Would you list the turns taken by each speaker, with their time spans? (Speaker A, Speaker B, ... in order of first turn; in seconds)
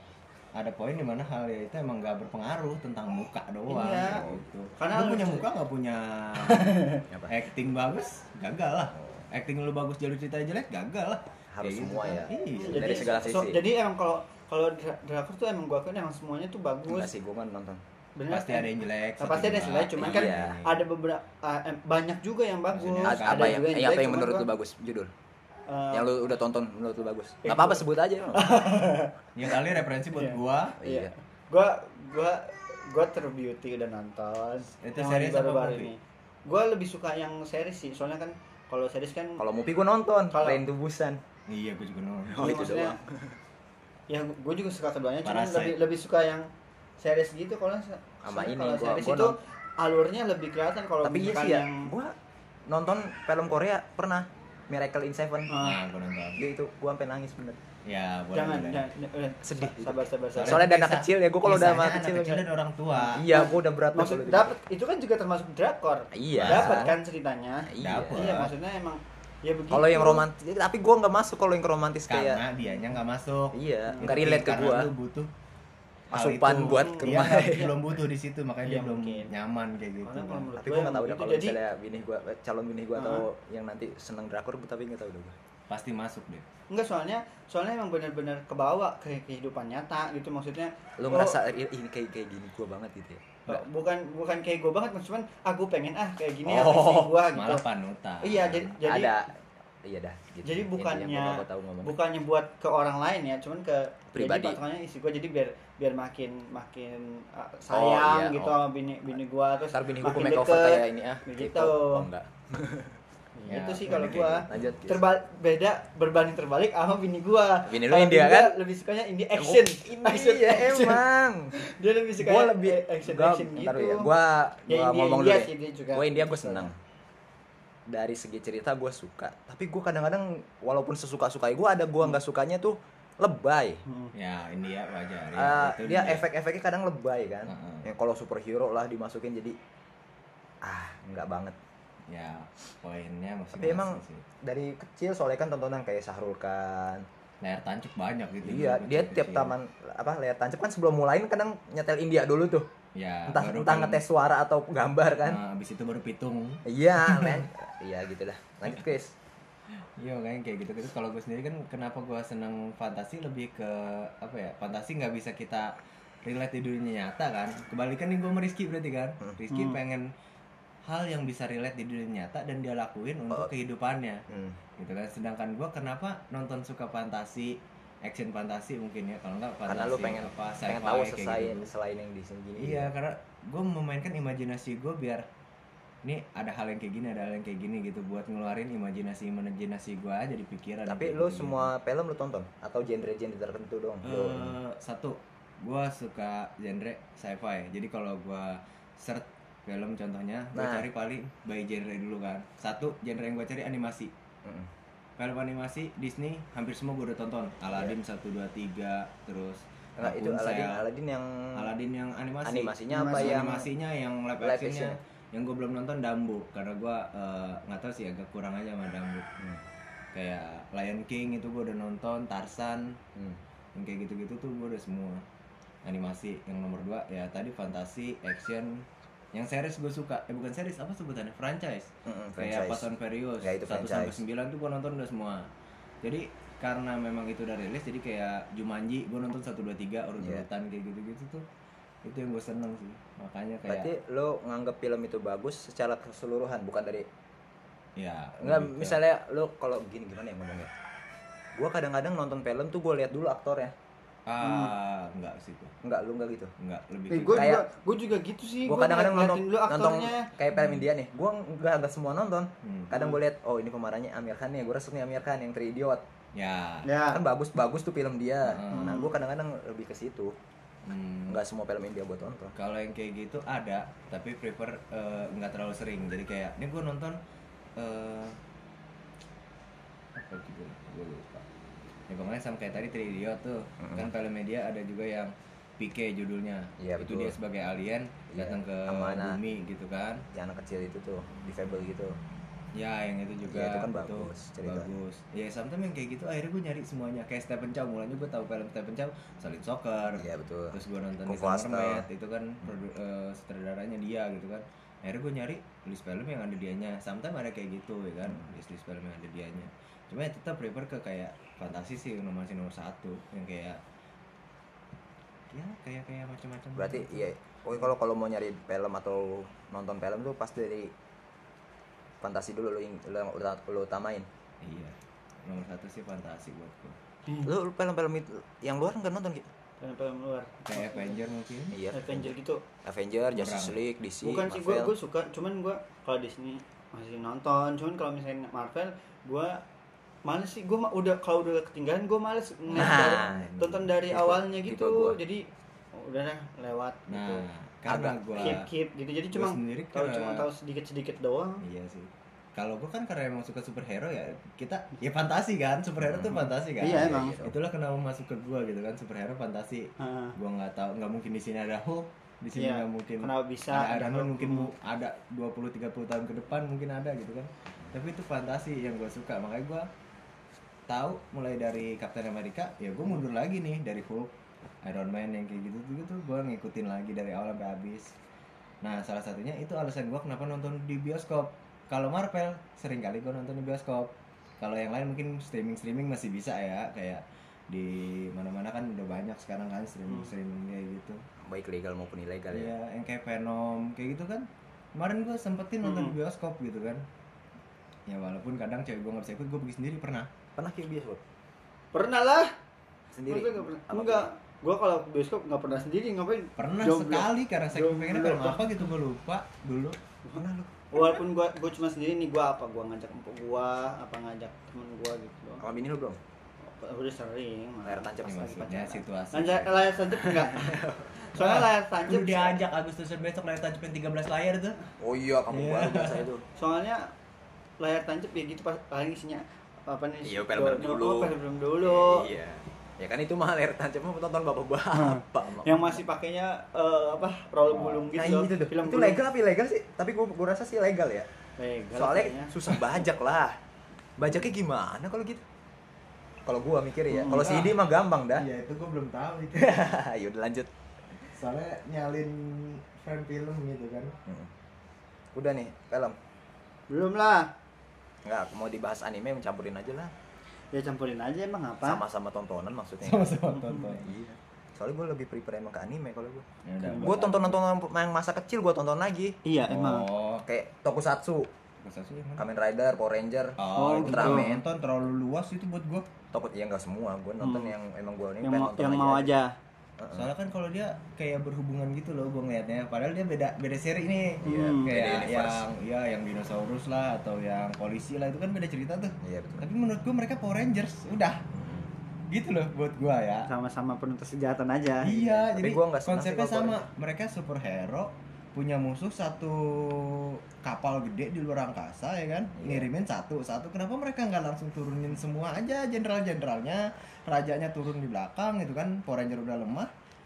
Speaker A: 0.6-13.2, 18.3-20.7, 22.7-23.6, 29.4-30.8, 34.8-35.9, 41.5-42.6, 45.2-45.8, 55.5-56.4, 57.9-58.9, 60.4-63.2, 66.3-66.9, 67.8-68.5, 72.1-75.3, 76.1-80.5, 85.7-86.5, 96.5-98.4, 113.5-114.5, 134.1-136.2, 137.5-137.9, 142.1-144.2, 147.4-149.5, 152.9-154.0, 155.2-157.5, 160.0-165.7, 166.2-170.0, 170.9-174.2, 174.8-181.7, 182.6-185.2, 186.0-191.7, 194.0-204.1, 205.2-210.8, 211.6-219.2, 220.1-222.9, 223.8-225.2, 225.8-235.4, 236.0-241.4, 242.0-243.9, 248.0-249.0, 254.3-255.7, 256.6-257.5, 260.5-260.9, 262.6-262.9, 266.3-266.9, 268.4-268.9, 270.9-271.4, 272.6-277.2, 277.8-278.4, 280.1-281.4, 282.1-290.2, 292.8-313.8, 315.5-317.3, 324.6-327.0, 330.7-331.8, 333.4-333.8, 342.7-343.9, 347.1-348.6, 349.3-350.5, 351.6-369.9, 370.9-374.3, 374.8-378.1, 378.8-391.2, 392.5-397.0, 398.1-400.3, 406.6-410.0, 418.2-424.8, 425.5-426.3, 447.3-447.8, 448.3-449.8, 451.3-454.1, 463.0-464.1, 466.6-467.6, 469.7-470.4, 471.8-472.4, 473.6-476.1, 480.1-491.4, 492.3-493.5, 495.0-509.9
Speaker B: 3.7-4.2, 4.8-5.5, 6.5-7.0, 12.6-17.1, 18.1-24.5, 25.7-26.1, 27.4-29.6, 30.1-39.4, 40.3-40.6, 42.4-43.0, 44.1-46.5, 47.0-51.9, 55.5-55.8, 58.3-60.7, 63.0-70.2, 73.9-74.2, 76.7-77.4, 78.6-79.3, 80.0-81.6, 83.0-83.2, 86.7-91.4, 93.5-97.6, 98.2-99.2, 100.4-112.1, 113.4-121.0, 121.5-124.1, 124.7-126.7, 133.9-134.1, 169.5-169.8, 212.9-213.6, 254.4-254.7, 257.1-260.3, 266.9-267.2, 268.7-269.1, 329.8-331.2, 331.9-332.6, 334.2-339.6, 340.2-347.4, 348.4-351.6, 356.8-357.4, 360.0-360.4, 362.5-364.7, 395.8-396.1, 401.9-402.5, 403.3-408.6, 410.9-415.6, 416.7-422.6, 426.6-427.1, 427.8-432.2, 434.9-439.2, 441.6-442.5, 447.1-447.4, 456.9-457.5, 460.7-462.0, 463.5-463.9, 466.8-467.1, 469.4-470.0, 473.8-474.5, 477.4-477.7, 478.4-479.5, 484.4-484.9, 493.5-495.1
Speaker C: 4.0-4.4, 7.1-7.3, 8.9-9.2, 11.5-13.6, 16.9-17.8, 20.0-20.6, 23.0-25.1, 25.9-28.5, 30.8-31.1, 39.4-41.2, 42.3-43.4, 48.2-49.4, 51.0-52.1, 52.7-55.5, 56.4-57.6, 59.4-62.5, 63.1-64.5, 66.1-67.0, 67.7-68.4, 69.7-72.4, 73.5-74.9, 76.1-77.9, 80.6-85.4, 91.0-93.6, 98.4-102.0, 104.1-104.6, 107.7-108.5, 109.7-113.0, 113.9-115.0, 117.6-118.5, 119.4-121.5, 122.2-126.8, 127.9-133.8, 135.3-139.6, 140.6-141.6, 143.6-147.1, 148.4-152.7, 153.3-155.4, 156.7-159.1, 174.3-174.6, 179.7-182.9, 190.9-194.6, 200.5-200.9, 204.4-204.7, 210.0-211.7, 212.4-213.6, 214.4-215.0, 232.0-232.9, 233.4-234.2, 240.2-240.4, 243.7-247.1, 248.4-250.7, 251.6-253.7, 255.8-256.5, 257.3-257.6, 258.6-266.0, 267.1-270.4, 271.3-272.5, 283.8-284.1, 286.8-287.4, 288.3-289.4, 290.3-292.2, 293.5-294.9, 300.1-302.1, 316.8-320.9, 322.2-324.3, 327.4-329.5, 331.7-332.3, 332.8-334.9, 342.7-343.5, 344.1-345.2, 347.9-348.6, 356.0-357.6, 391.4-392.7, 400.6-401.2, 403.1-404.3, 410.3-411.2, 415.6-416.2, 417.8-418.5, 425.0-426.4, 430.2-435.9, 437.7-441.3, 441.9-443.5, 444.2-445.4, 446.4-448.5, 449.5-450.7, 454.2-454.5, 455.3-456.2, 458.2-460.1, 461.8-463.4, 464.0-466.5, 467.0-469.4, 470.4-471.5, 472.4-474.6, 476.3-479.3, 480.0-480.3, 484.4-485.6, 489.2-489.6, 491.5-491.9, 495.1-496.9, 502.5-502.9